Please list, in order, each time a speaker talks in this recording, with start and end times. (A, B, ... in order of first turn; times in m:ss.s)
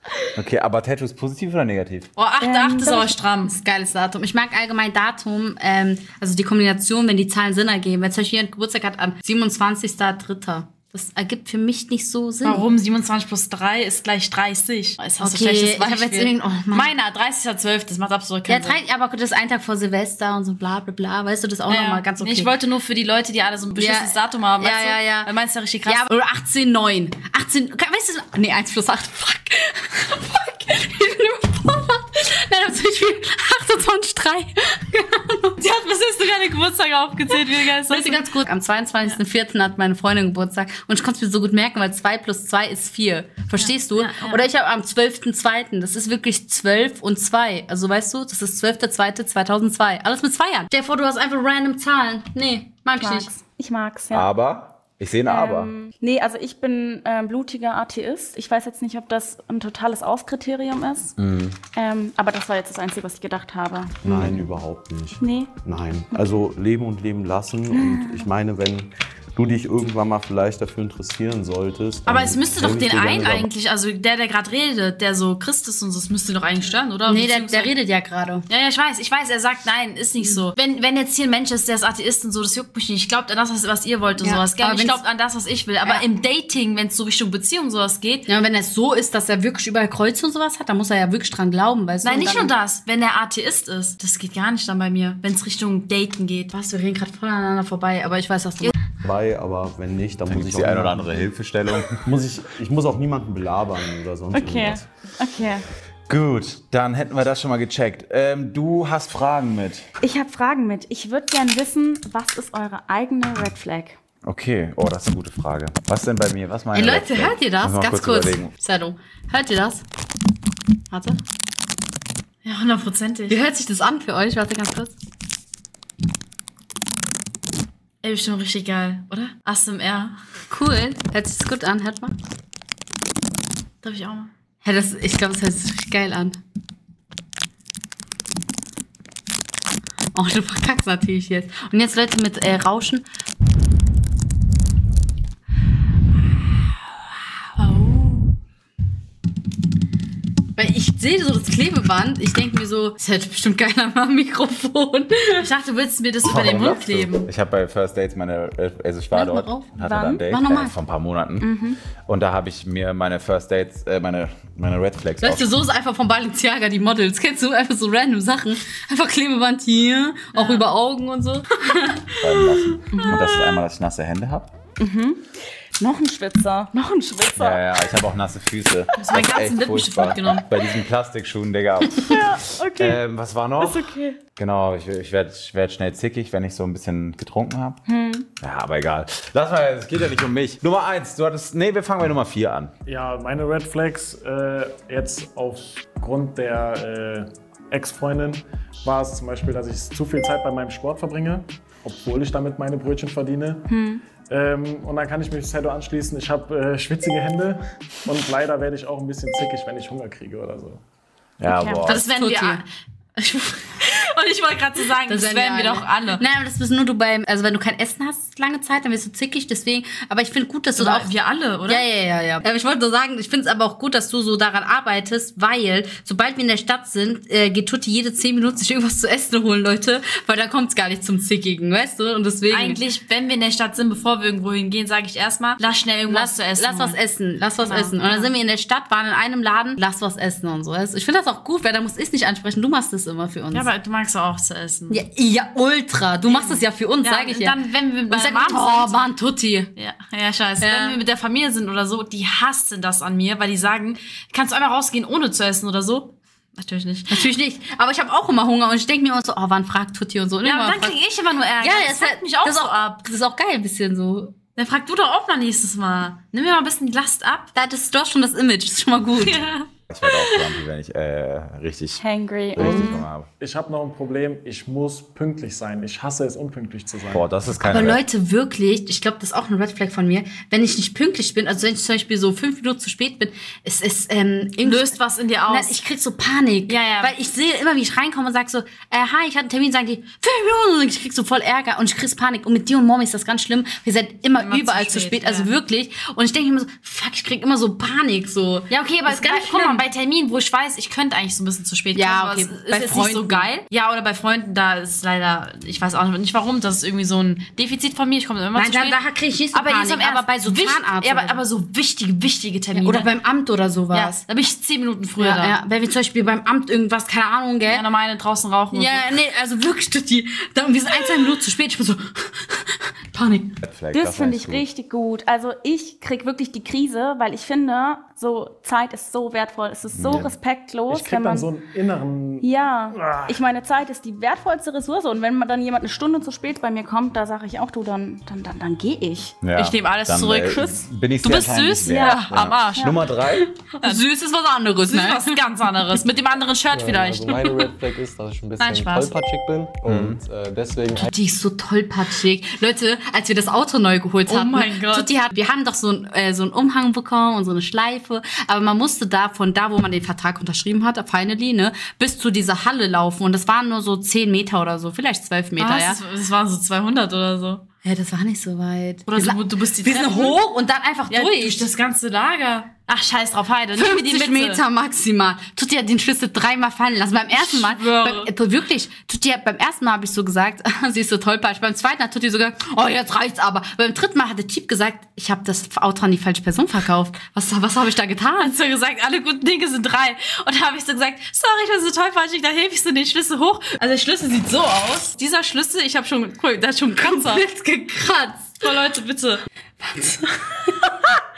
0:00.4-0:02.1 A
0:02.2-0:03.5 B
0:02.4-0:03.1 C
0:03.4-0:12.6 D
0:12.4-0:18.8 B
0:15.2-0:16.9 D
0:18.5-0:22.5 D
0:21.7-0:26.0 B
0:23.8-0:25.3 D
0:25.8-0:35.6 D
0:35.6-0:38.2 B
0:37.3-0:53.3 D
0:43.6-0:44.4 B
0:53.0-0:54.3 C
0:54.1-0:55.7 A
0:55.2-1:01.2 C
1:01.2-1:01.6 A
1:01.7-1:04.0 C
1:04.0-1:04.4 A
1:04.0-1:13.5 E
1:05.2-1:05.5 C
1:07.7-1:08.2 C
1:12.1-1:17.7 B
1:17.0-1:18.5 D
1:18.5-1:28.3 B
1:24.2-1:25.0 D
1:28.3-1:32.5 D
1:32.0-1:36.5 B
1:36.5-1:38.7 D
1:39.0-1:41.2 E
1:40.3-1:42.1 A
1:42.0-1:44.8 E
1:44.3-1:45.6 C
1:46.1-1:49.8 A
1:50.0-1:54.0 C
1:54.2-1:58.5 A
1:56.7-1:59.8 D
2:00.9-2:01.2 D
2:02.4-2:03.4 B
2:03.3-2:04.9 D
2:08.0-2:10.2 B
2:10.5-2:12.2 D
2:13.8-2:14.3 B
2:14.6-2:16.4 D
2:20.1-2:23.0 D
2:27.6-2:28.2 B
2:30.6-2:35.4 D
2:35.3-2:37.3 B
2:36.2-2:45.5 A
2:39.1-2:39.7 D
2:39.8-2:40.3 C
2:40.3-2:40.8 D
2:41.4-2:41.8 C
2:45.2-2:52.0 D
2:50.3-2:50.7 B
2:52.2-2:54.5 A
2:52.9-2:53.2 B
2:52.9-2:53.2 C
2:54.8-2:55.3 C
2:55.8-2:57.6 C
2:57.4-3:07.8 A
2:59.0-3:00.5 B
3:02.1-3:03.0 C
3:03.6-3:04.2 C
3:07.8-3:08.3 C
3:08.4-3:12.7 A
3:12.8-3:23.6 F
3:23.7-3:24.0 C
3:24.3-3:30.8 F
3:31.4-3:32.0 A
3:31.5-3:31.9 C
3:31.9-3:32.6 D
3:31.9-3:36.2 B
3:35.1-3:41.1 D
3:40.8-3:41.8 B
3:41.6-3:52.8 D
3:52.5-3:57.0 B
3:56.1-4:03.7 D
3:57.6-3:58.3 B
4:03.5-4:05.0 B
4:04.9-4:09.7 D
4:06.2-4:09.0 B
4:09.8-4:17.2 B
4:10.6-4:11.0 D
4:17.1-4:21.0 D
4:20.4-4:23.0 B
4:21.6-4:24.3 D
4:24.6-4:27.5 B
4:27.5-4:29.4 D
4:29.2-4:30.4 B
4:29.9-4:32.0 A
4:32.0-4:33.0 C
4:32.5-4:33.3 A
4:32.7-4:33.0 B
4:33.4-4:37.4 F
4:37.1-4:38.0 A
4:37.6-4:45.0 D
4:44.6-4:45.8 B
4:45.5-4:59.9 D
4:46.7-4:47.1 B
4:54.4-4:55.5 B
4:59.0-5:09.0 B
5:02.0-5:03.6 D
5:08.5-5:11.4 D
5:09.5-5:13.1 B
5:12.8-5:14.2 D
5:13.9-5:15.6 B
5:15.2-5:17.8 D
5:17.7-5:19.1 B
5:18.7-5:23.6 D
5:23.6-5:24.6 A
5:23.9-5:31.5 C
5:29.9-5:30.3 A
5:30.9-5:33.4 F
5:32.4-5:39.4 C
5:39.4-5:43.5 A
5:39.5-5:43.1 B
5:41.9-5:42.2 C
5:43.7-5:45.4 D
5:43.8-5:44.0 B
5:44.9-5:47.6 B
5:46.7-5:51.1 G
5:48.6-5:49.1 B
5:49.9-5:50.2 A
5:51.1-6:06.0 D
5:54.3-5:55.1 B
6:05.6-6:07.6 B
6:07.8-6:11.7 D
6:09.1-6:10.4 B
6:11.1-6:14.6 B
6:13.8-6:28.6 D
6:17.4-6:18.3 B
6:28.4-6:37.4 B
6:37.0-6:38.6 D
6:38.6-6:39.4 B
6:39.8-6:40.2 D